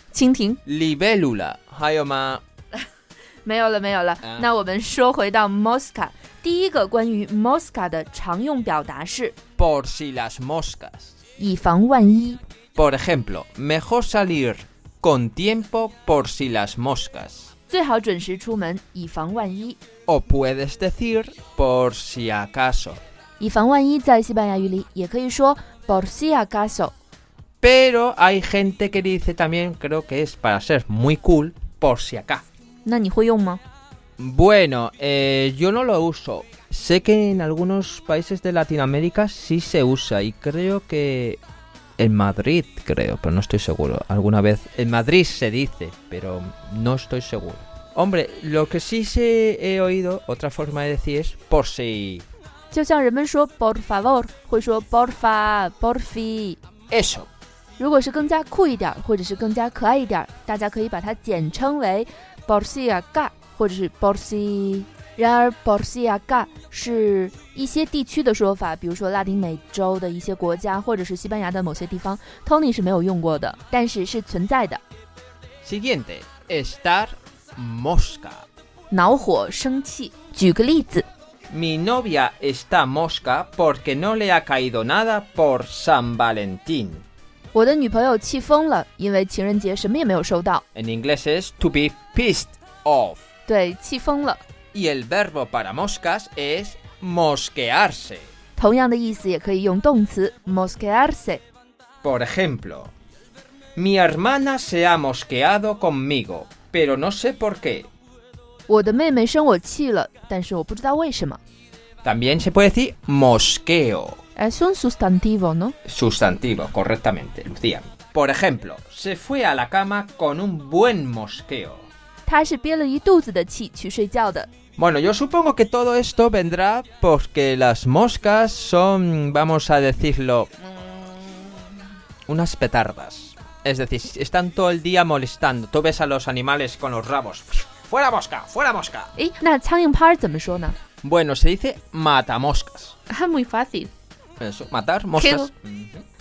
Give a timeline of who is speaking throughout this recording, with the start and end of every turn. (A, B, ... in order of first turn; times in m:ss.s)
0:00.1-0:00.6 A
0:00.6-0:02.4 B
0:03.4-0:09.3 A
0:09.6-0:11.2 B
0:11.4-0:12.4 A
0:12.7-0:17.5 B
0:17.7-0:19.8 A
0:20.1-0:23.0 B
0:23.4-0:26.9 A
0:27.6-0:32.4 B
0:32.8-0:33.6 A
0:34.2-0:41.4 B
0:42.0-0:52.3 B
0:52.7-0:56.6 A
0:56.9-0:57.3 B
0:57.8-1:14.8 A
1:15.6-1:18.5 B
1:18.9-1:21.1 A
1:21.5-1:27.0 B
1:27.5-1:30.6 A
1:30.7-1:33.2 B
1:33.5-1:34.4 A
1:34.7-1:38.3 B
1:38.6-1:41.4 A
1:42.0-1:42.9 B
1:43.8-1:47.9 B
1:48.7-1:51.4 A
1:52.0-1:54.2 B
1:54.4-1:55.8 A
1:55.8-2:01.9 B
2:02.2-2:04.5 A
2:04.8-2:10.7 B
2:12.3-2:19.1 B
2:19.2-2:20.8 A
2:21.0-2:23.0 B
2:23.1-2:23.9 A
2:24.4-2:26.0 B
2:25.2-2:25.5 A